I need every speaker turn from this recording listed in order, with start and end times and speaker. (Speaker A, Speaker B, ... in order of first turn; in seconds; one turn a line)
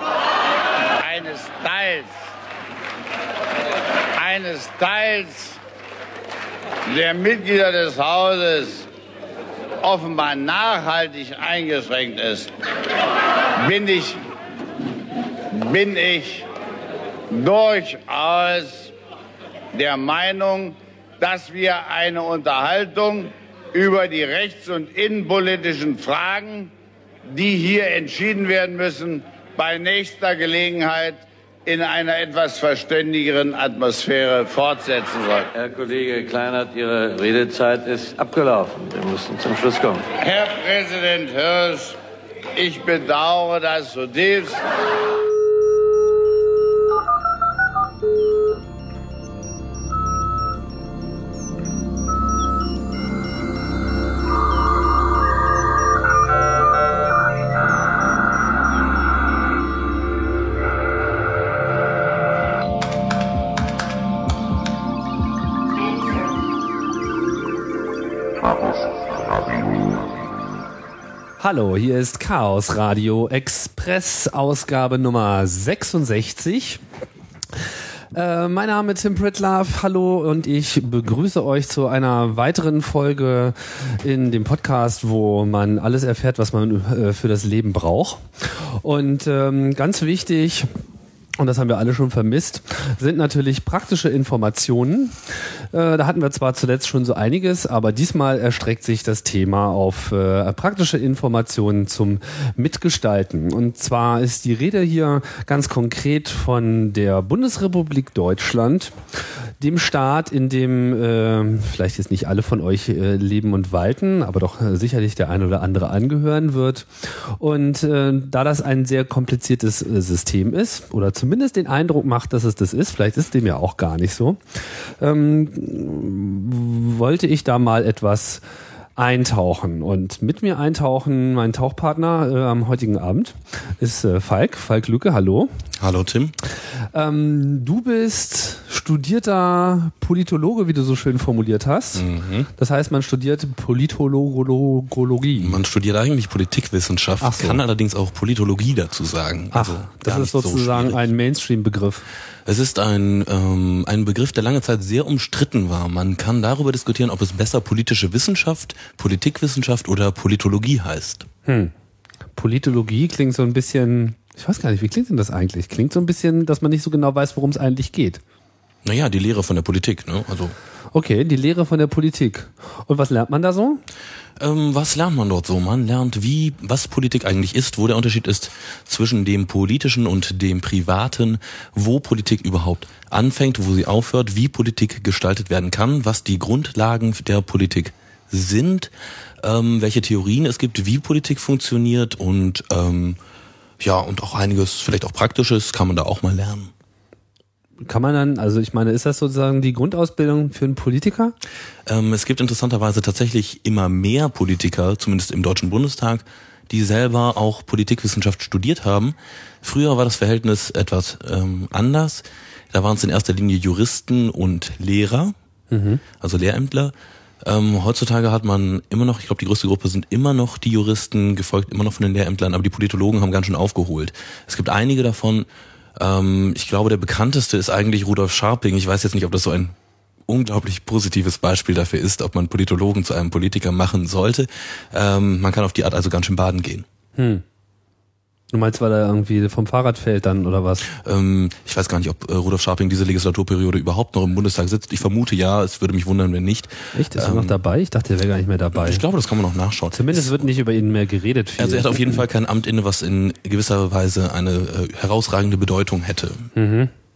Speaker A: 0.8-2.1
Speaker A: 4.1-5.6
Speaker A: 6.9-8.9
Speaker A: 9.8-12.5
Speaker A: 13.6-14.2
Speaker A: 15.5-16.5
Speaker A: 17.3-18.9
Speaker A: 19.7-26.7
Speaker A: 27.3-35.5
Speaker B: 35.5-40.1
Speaker A: 40.2-42.0
Speaker A: 42.5-44.6
Speaker C: 71.4-76.8
Speaker C: 78.1-90.7
Speaker C: 91.4-109.0
Speaker C: 109.6-124.4
Speaker C: 125.0-128.4
Speaker C: 129.0-135.5
Speaker D: 135.8-136.4
Speaker C: 136.9-145.6
Speaker D: 142.0-142.5
Speaker D: 145.4-151.0
Speaker C: 147.2-147.6
Speaker C: 149.5-152.1
Speaker D: 152.5-161.3
Speaker C: 161.5-161.7
Speaker C: 162.4-168.2
Speaker D: 168.8-170.6
Speaker C: 170.9-173.8
Speaker D: 174.4-193.2
Speaker D: 193.8-196.7
Speaker C: 197.8-201.3
Speaker D: 201.9-215.3
Speaker C: 215.7-216.0
Speaker D: 216.2-229.8
Speaker D: 230.3-236.9
Speaker C: 237.2-237.4
Speaker C: 238.5-240.9
Speaker D: 240.8-247.6
Speaker C: 246.9-249.0
Speaker D: 248.7-250.4
Speaker C: 249.9-252.2
Speaker D: 251.6-256.5
Speaker C: 256.6-256.9